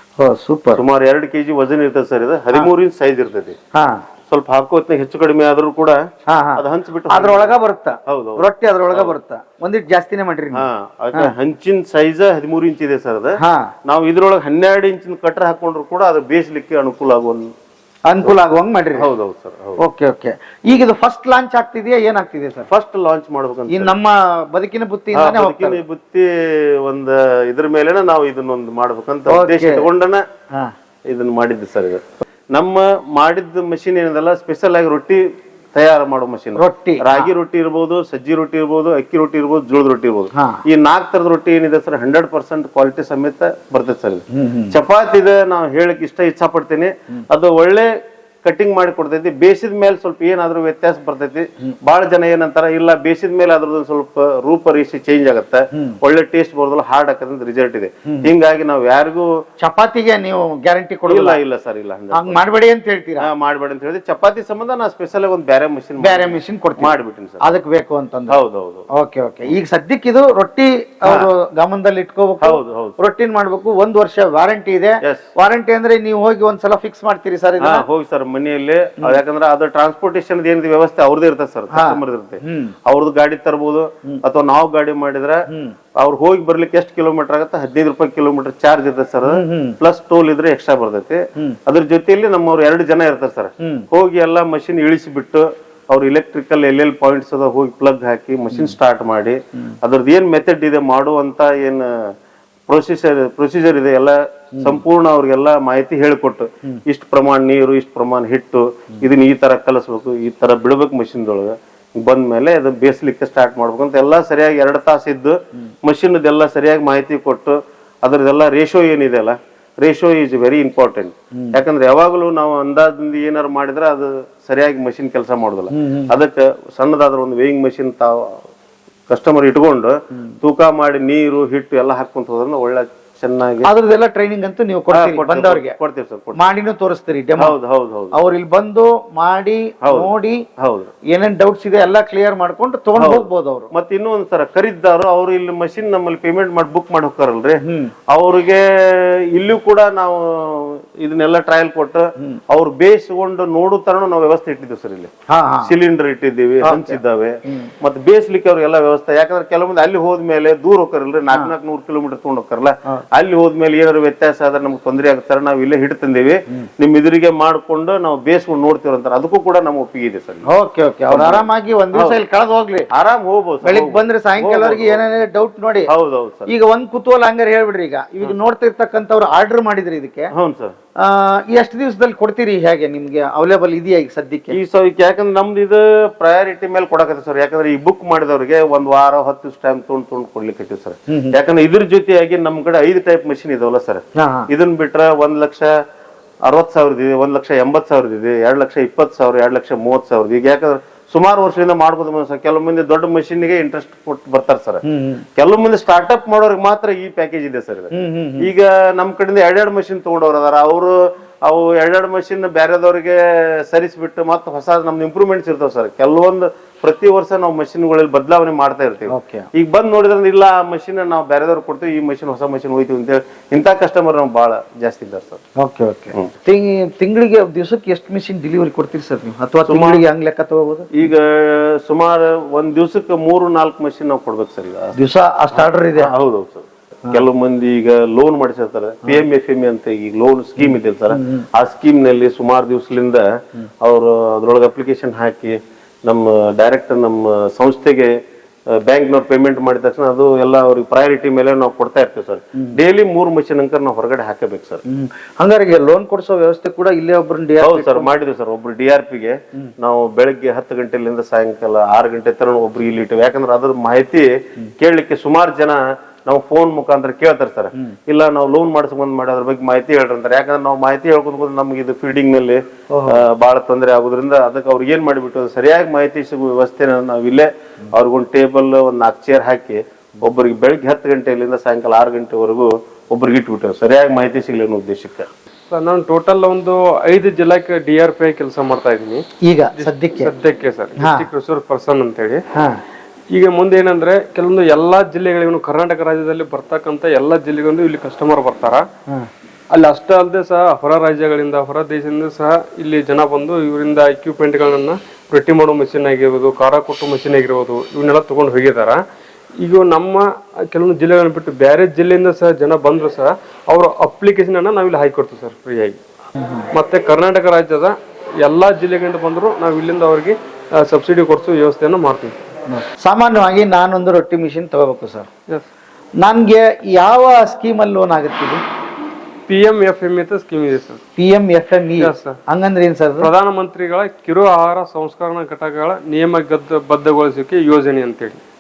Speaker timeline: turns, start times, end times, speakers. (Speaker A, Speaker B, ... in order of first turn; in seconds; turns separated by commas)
Speaker A: 0.2-0.8, Speaker B: 0.8-3.6, Speaker A: 3.7-4.0, Speaker B: 4.3-6.0, Speaker A: 6.3-11.3, Speaker B: 6.6-7.5, Speaker B: 8.1-9.1, Speaker B: 10.5-17.5, Speaker A: 13.4-13.7, Speaker A: 18.1-19.1, Speaker B: 19.0-19.8, Speaker A: 19.8-22.7, Speaker B: 22.7-23.9, Speaker A: 23.7-25.8, Speaker B: 25.1-30.2, Speaker A: 29.3-29.9, Speaker B: 31.1-47.9, Speaker A: 36.6-37.3, Speaker A: 40.4-40.6, Speaker A: 44.3-44.8, Speaker B: 48.4-59.4, Speaker A: 58.0-58.3, Speaker A: 59.6-61.4, Speaker B: 61.1-62.4, Speaker A: 62.1-63.3, Speaker B: 63.2-67.5, Speaker A: 66.0-68.4, Speaker B: 68.3-68.9, Speaker A: 68.9-77.8, Speaker B: 72.4-73.0, Speaker B: 75.0-75.3, Speaker B: 77.6-102.1, Speaker A: 81.7-82.7, Speaker A: 85.5-85.8, Speaker A: 89.2-89.8, Speaker A: 93.6-93.9, Speaker B: 102.7-128.4, Speaker A: 104.6-104.8, Speaker A: 125.7-126.1, Speaker B: 129.1-133.7, Speaker A: 133.6-135.8, Speaker B: 134.9-136.5, Speaker A: 136.4-137.6, Speaker B: 137.4-138.1, Speaker A: 138.1-140.4, Speaker B: 139.8-140.9, Speaker A: 141.1-143.7, Speaker B: 143.0-155.1, Speaker A: 147.6-147.9, Speaker A: 155.3-155.7, Speaker B: 155.6-170.5, Speaker A: 156.6-157.7, Speaker A: 170.5-172.9, Speaker B: 171.1-172.2, Speaker B: 172.9-175.0, Speaker A: 173.6-175.9, Speaker B: 175.9-176.5, Speaker A: 176.5-180.3, Speaker B: 180.3-180.8, Speaker A: 181.0-184.6, Speaker B: 184.5-195.7, Speaker A: 191.1-191.4, Speaker A: 194.2-194.5, Speaker B: 196.4-204.8, Speaker A: 204.8-205.2, Speaker B: 205.4-225.4, Speaker A: 207.9-208.5, Speaker A: 219.1-219.5, Speaker A: 225.6-230.9, Speaker B: 229.7-230.0, Speaker B: 230.9-235.0, Speaker A: 234.9-236.1, Speaker B: 235.5-248.1, Speaker A: 240.6-241.5, Speaker B: 248.7-254.8, Speaker A: 254.9-258.1, Speaker B: 257.6-285.3, Speaker A: 272.9-273.2, Speaker C: 285.7-289.2, Speaker A: 289.4-290.3, Speaker C: 289.8-292.4, Speaker A: 291.0-291.3, Speaker A: 292.5-292.8, Speaker C: 293.3-298.8, Speaker C: 299.7-309.0, Speaker C: 309.6-316.0, Speaker A: 316.4-316.7, Speaker C: 316.7-322.4, Speaker A: 322.7-325.3, Speaker A: 326.2-328.6, Speaker C: 329.5-331.0, Speaker A: 331.2-333.3, Speaker C: 332.0-332.4, Speaker C: 333.2-338.4